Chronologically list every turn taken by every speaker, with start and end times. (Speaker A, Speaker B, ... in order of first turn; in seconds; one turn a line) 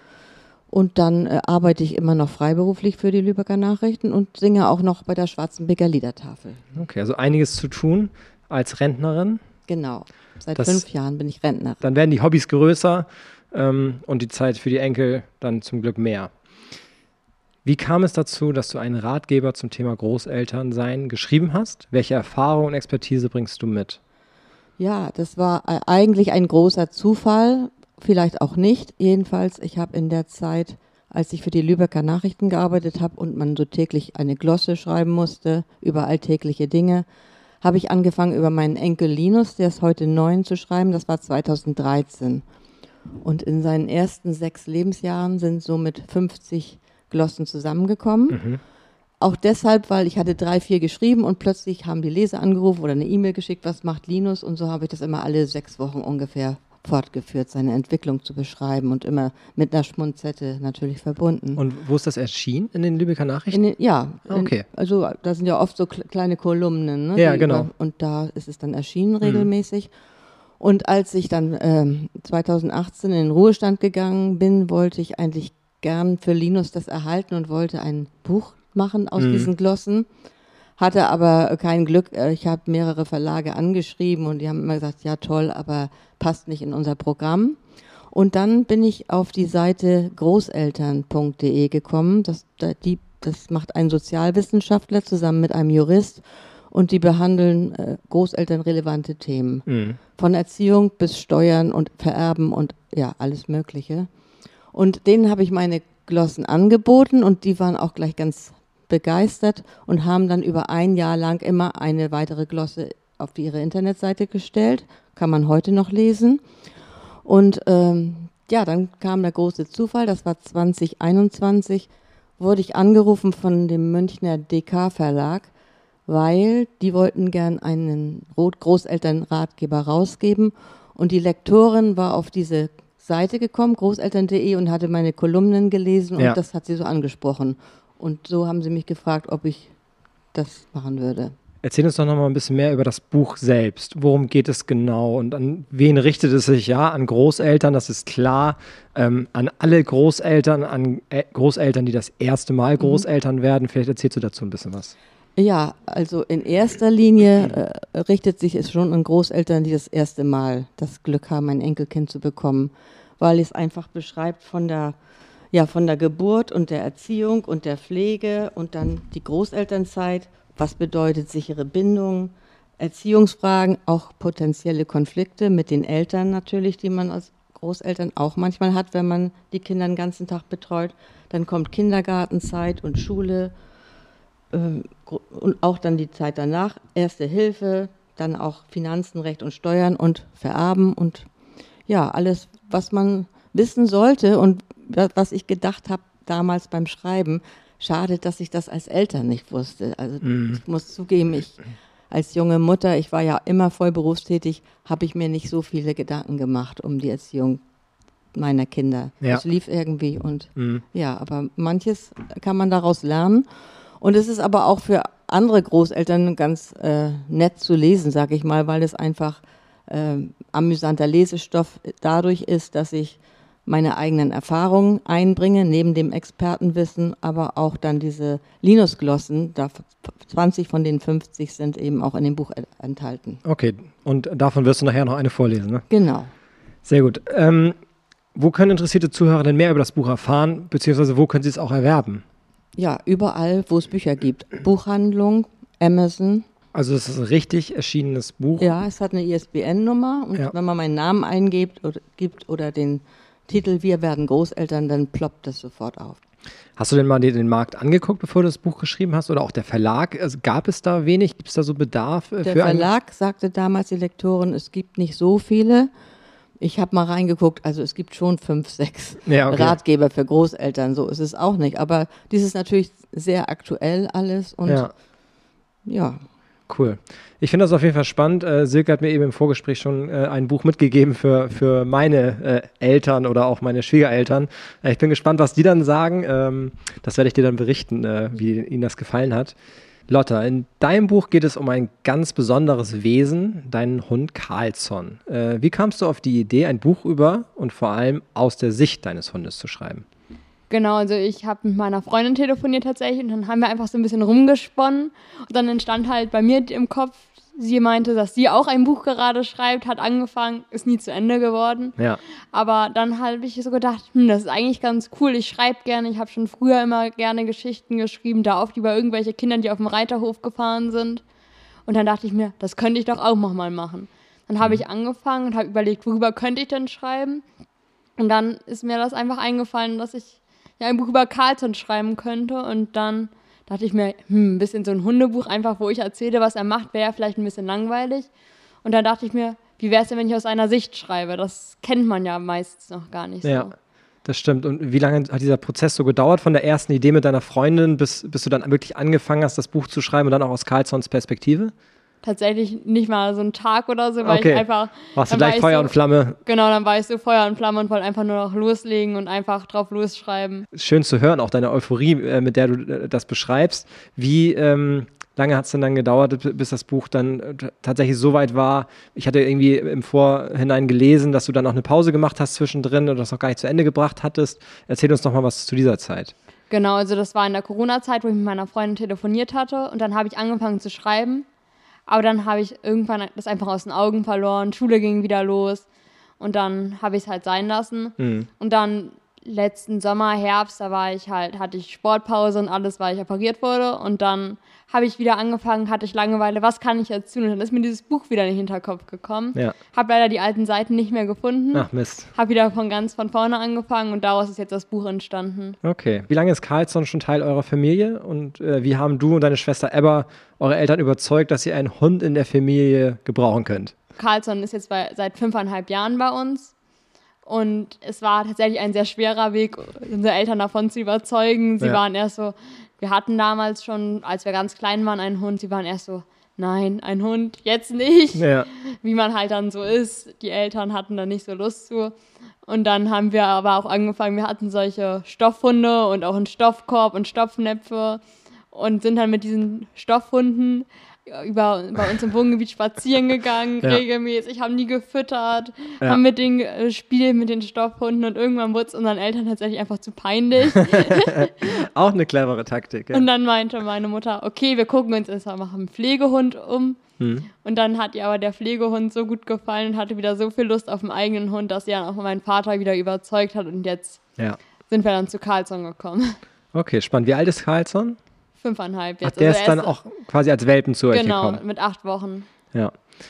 Speaker A: 0.7-6.6
Speaker B: 6.7-9.4
Speaker A: 9.7-11.8
Speaker B: 10.6-10.8
Speaker B: 11.8-16.3
Speaker B: 17.6-24.0
Speaker A: 24.8-37.0
Speaker A: 37.6-42.4
Speaker A: 43.2-48.4
Speaker B: 48.3-48.6
Speaker A: 49.2-61.6
Speaker B: 61.6-63.6
Speaker A: 63.5-69.9
Speaker B: 64.3-64.6
Speaker B: 67.2-67.7
Speaker B: 69.2-69.5
Speaker A: 70.6-80.1
Speaker B: 79.2-79.5
Speaker A: 80.8-87.6
Speaker A: 88.1-99.6
Speaker B: 99.7-100.0
Speaker A: 100.2-104.1
Speaker A: 104.7-116.4
Speaker A: 117.2-125.5
Speaker A: 126.1-139.7
Speaker A: 140.3-141.3
Speaker B: 141.6-154.9
Speaker A: 155.3-164.9
Speaker A: 165.5-183.5
Speaker A: 184.5-191.3
Speaker A: 191.9-201.6
Speaker B: 200.2-200.6
Speaker A: 202.1-207.6
Speaker A: 208.3-213.4
Speaker B: 210.6-210.8
Speaker A: 214.0-233.4
Speaker B: 233.4-235.8
Speaker A: 235.9-236.3
Speaker B: 236.8-237.8
Speaker B: 238.3-242.2
Speaker A: 242.8-246.4
Speaker B: 246.7-248.7
Speaker A: 248.6-256.2
Speaker B: 256.8-262.9
Speaker A: 262.4-265.9
Speaker A: 266.6-274.9
Speaker B: 269.2-269.8
Speaker B: 274.6-274.9
Speaker A: 275.9-276.2
Speaker B: 276.7-289.5
Speaker B: 290.1-300.0
Speaker C: 300.7-312.0
Speaker C: 312.5-321.2
Speaker C: 321.9-327.4
Speaker C: 328.2-338.3
Speaker C: 338.8-343.7
Speaker B: 343.4-343.7
Speaker B: 344.2-351.7
Speaker C: 352.2-355.9
Speaker B: 354.2-356.4
Speaker C: 356.4-360.7
Speaker B: 360.7-376.3
Speaker C: 376.7-381.4
Speaker C: 382.1-385.9
Speaker C: 386.4-405.8
Speaker B: 388.2-388.5
Speaker B: 401.7-402.3
Speaker B: 405.8-413.9
Speaker C: 414.2-416.7
Speaker C: 417.4-432.1
Speaker B: 428.4-428.7
Speaker C: 432.6-451.7
Speaker B: 450.9-453.3
Speaker C: 453.1-457.0
Speaker B: 457.2-457.5
Speaker C: 457.6-464.2
Speaker C: 464.9-466.4
Speaker B: 466.7-468.2
Speaker C: 468.6-469.9
Speaker B: 469.2-471.6
Speaker C: 471.1-472.5